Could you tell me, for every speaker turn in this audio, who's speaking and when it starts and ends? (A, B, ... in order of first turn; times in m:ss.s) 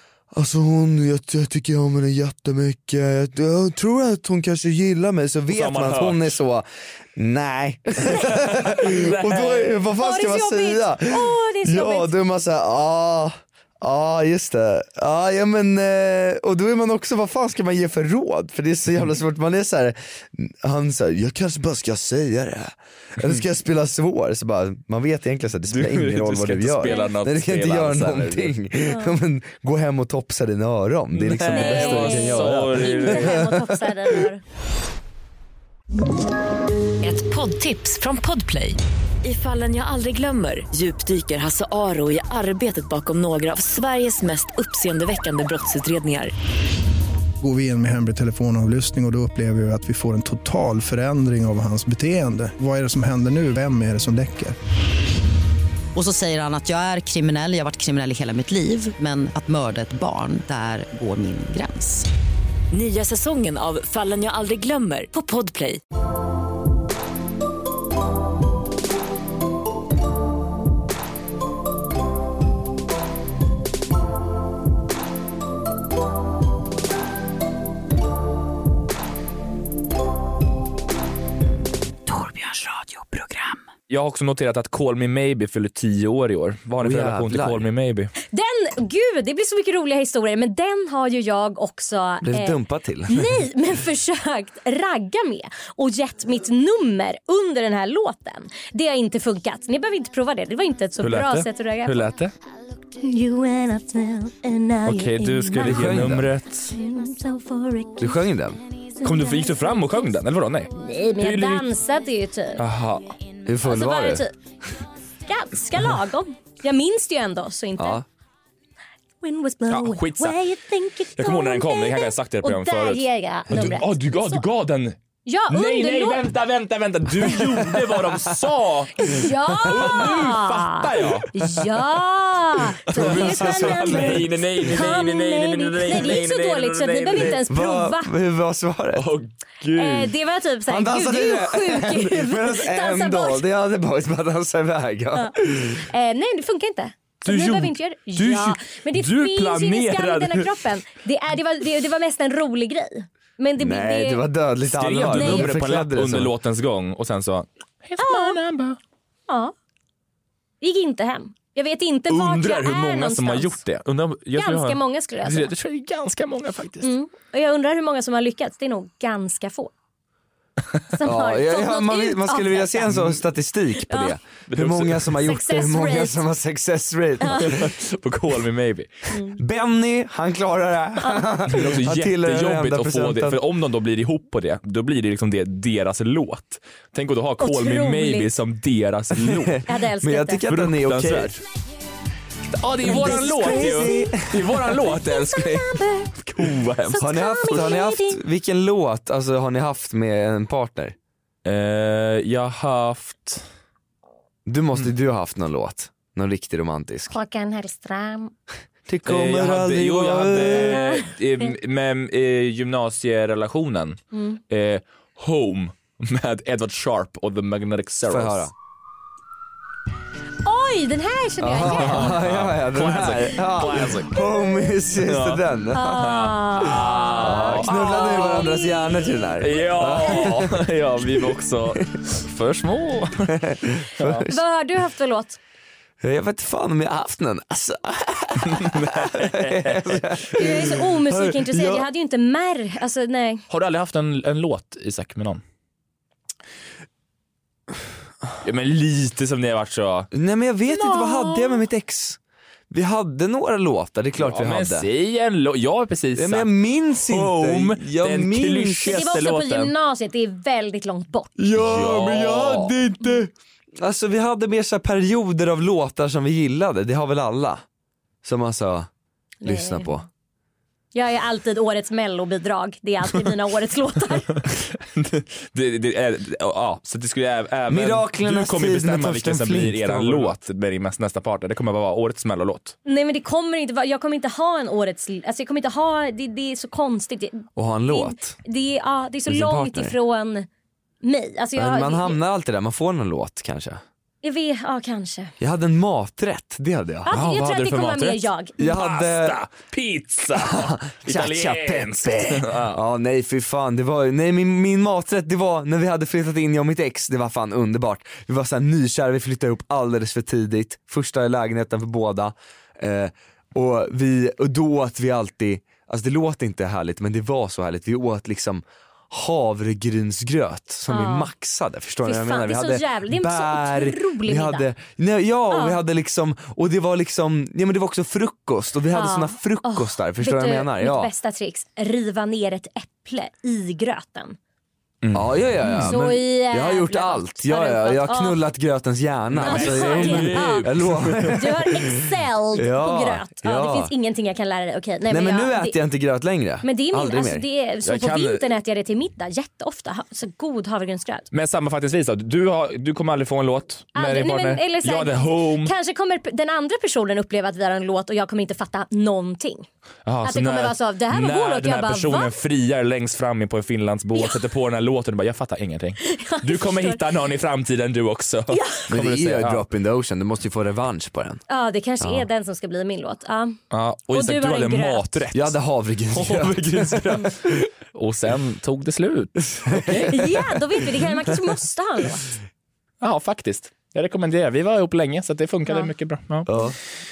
0:00.3-0:33.9 A
0:05.5-0:06.4 B
0:08.1-0:09.8 B
0:09.9-0:12.1 C
0:25.7-0:28.5 B
0:26.8-0:27.1 C
0:28.8-0:29.1 C
0:31.1-0:33.4 B
0:31.5-0:34.4 C
0:37.0-0:46.3 D
0:47.4-0:54.6 E
0:55.9-1:02.1 F
1:02.7-1:05.8 D
1:22.1-1:23.0 D
1:23.9-1:28.1 B
1:26.8-1:27.7 A
1:28.3-1:42.1 C
1:32.2-1:33.4 A
1:41.0-1:42.3 B
1:43.0-1:48.2 C
1:44.8-1:46.7 B
1:45.6-1:46.3 A
1:48.0-1:48.6 A
1:49.0-1:51.6 B
1:50.7-1:52.6 C
1:52.6-1:53.1 B
1:53.4-1:54.2 A
1:53.6-1:54.3 C
1:55.3-1:58.0 C
1:57.8-1:58.0 A
1:59.2-2:04.4 C
1:59.7-2:00.4 B
2:01.2-2:05.0 B
2:05.2-2:06.2 C
2:05.5-2:11.6 B
2:09.0-2:18.1 C
2:12.9-2:17.4 B
2:12.9-2:14.9 A
2:17.3-2:19.1 A
2:19.0-2:20.1 B
2:19.7-2:23.4 C
2:20.7-2:25.8 A
2:25.1-2:34.2 C
2:27.2-2:30.6 B
2:33.6-2:36.3 A
2:34.8-2:38.8 B
2:35.0-2:35.5 C
2:38.0-2:38.4 C
2:39.3-2:39.5 C
2:40.6-2:43.6 C
2:42.1-2:46.9 B
2:44.3-2:45.5 C
2:46.8-2:49.7 C
2:50.9-2:52.9 C
2:51.0-2:57.7 A
2:53.7-2:54.1 C
2:54.5-2:55.2 B
2:55.2-2:56.2 C
2:57.2-2:57.5 C
2:57.4-2:58.9 B
2:59.1-2:59.4 C
2:59.4-3:03.4 A
3:01.0-3:01.2 C
3:01.5-3:09.7 B
3:07.4-3:08.3 C
3:09.2-3:11.3 A
3:09.7-3:10.4 C
3:10.5-3:11.4 B
3:12.5-3:17.7 B
3:12.8-3:14.6 A
3:12.8-3:16.1 C
3:16.8-3:18.2 C
3:16.9-3:20.9 A
3:21.4-3:23.4 B
3:24.4-3:27.1 A
3:27.1-3:28.3 C
3:28.9-3:30.9 A
3:29.0-3:38.5 B
3:30.6-3:31.5 C
3:34.1-3:34.4 C
3:38.0-3:38.5 A
3:40.4-3:42.2 C
3:41.4-3:46.1 A
3:41.6-3:44.2 B
3:44.9-3:48.5 B
3:45.7-3:50.2 C
3:47.2-3:50.6 A
3:49.4-3:53.4 B
3:53.3-3:54.3 A
3:54.0-3:54.2 B
3:54.0-3:55.4 C
3:56.0-4:01.8 A
3:58.4-4:00.1 B
4:00.3-4:03.4 C
4:03.5-4:05.4 B
4:08.4-4:10.1 B
4:10.1-4:12.2 A
4:12.7-4:14.9 A
4:14.2-4:19.7 B
4:16.2-4:19.0 A
4:18.9-4:21.4 C
4:21.4-4:27.6 A
4:21.5-4:22.8 B
4:28.2-4:28.9 A
4:29.4-4:30.0 C
4:29.4-4:30.0 A
4:30.9-4:34.4 C
4:34.6-4:42.7 B
4:37.7-4:40.3 A
4:42.8-4:50.5 C
4:47.6-4:48.4 A
4:49.3-4:50.0 A
4:51.0-4:52.2 C
4:51.5-4:53.8 A
4:54.2-4:55.3 C
4:55.4-4:57.2 A
4:57.0-4:58.6 C
4:57.1-5:02.8 B
4:58.6-4:59.4 A
5:00.3-5:31.1 A
5:20.9-5:21.3 C
5:22.0-5:24.6 C
5:25.5-5:25.8 C
5:28.9-5:34.4 C
5:35.0-5:36.0 B
5:35.1-5:43.9 A
5:35.8-5:38.4 C
5:39.3-5:41.4 B
5:39.4-5:40.7 C
5:41.3-5:45.8 C
5:45.1-5:47.5 A
5:46.6-5:51.3 C
5:47.8-5:48.4 B
5:51.3-5:55.7 B
5:53.9-5:59.7 C
6:00.0-6:09.6 B
6:00.2-6:02.3 C
6:06.0-6:07.0 C
6:08.5-6:08.9 C
6:08.9-6:11.4 A
6:11.5-6:13.6 C
6:12.0-6:12.2 A
6:13.7-6:15.6 B
6:14.1-6:15.2 C
6:15.3-6:17.3 A
6:16.1-6:20.6 B
6:19.6-6:20.4 A
6:20.0-6:22.3 C
6:23.0-6:26.5 B
6:26.5-6:26.8 A